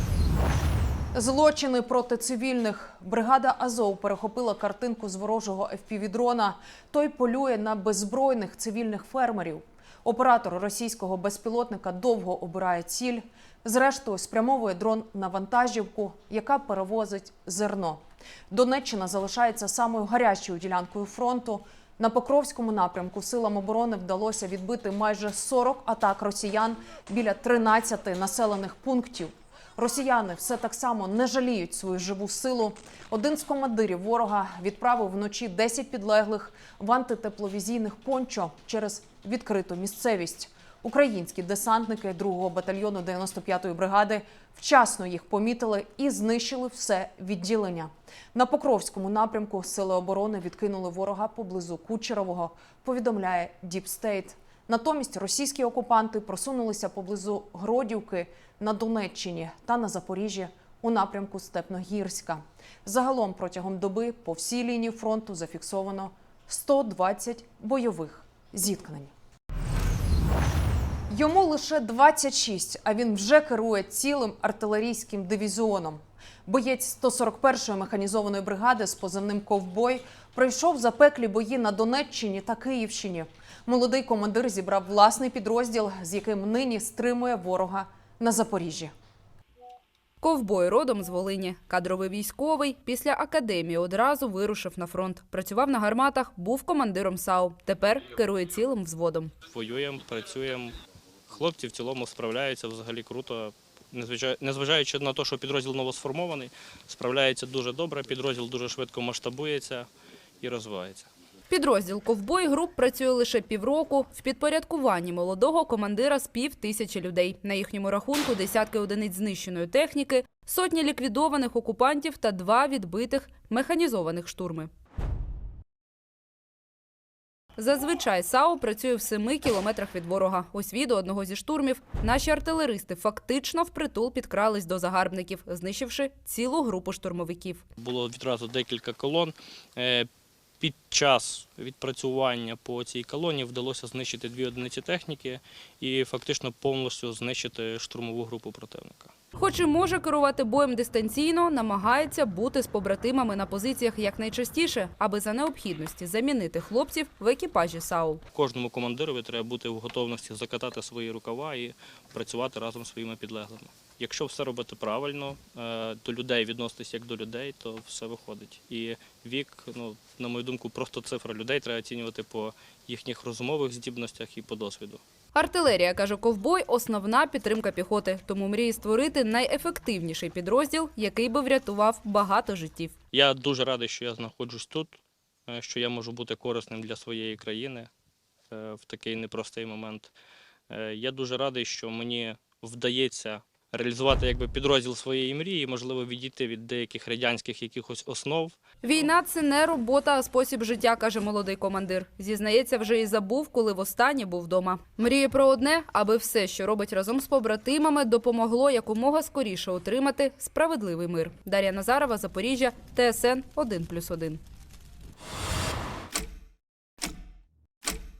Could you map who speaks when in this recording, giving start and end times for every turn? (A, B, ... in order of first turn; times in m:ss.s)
0:01.1-1:09.1 A
1:11.1-1:28.9 A
1:30.2-1:39.3 B
1:39.5-1:40.7 C
1:41.3-1:49.9 C
1:50.4-1:51.1 C
1:51.5-2:04.7 B
2:07.6-2:17.6 B
2:17.8-2:20.1 C
2:20.6-2:29.1 C
2:29.4-2:38.2 B
2:38.3-2:55.0 C
2:55.3-3:02.9 B
3:03.1-3:07.9 C
3:08.5-3:10.1 C
3:10.7-3:18.6 C
3:18.8-3:34.4 B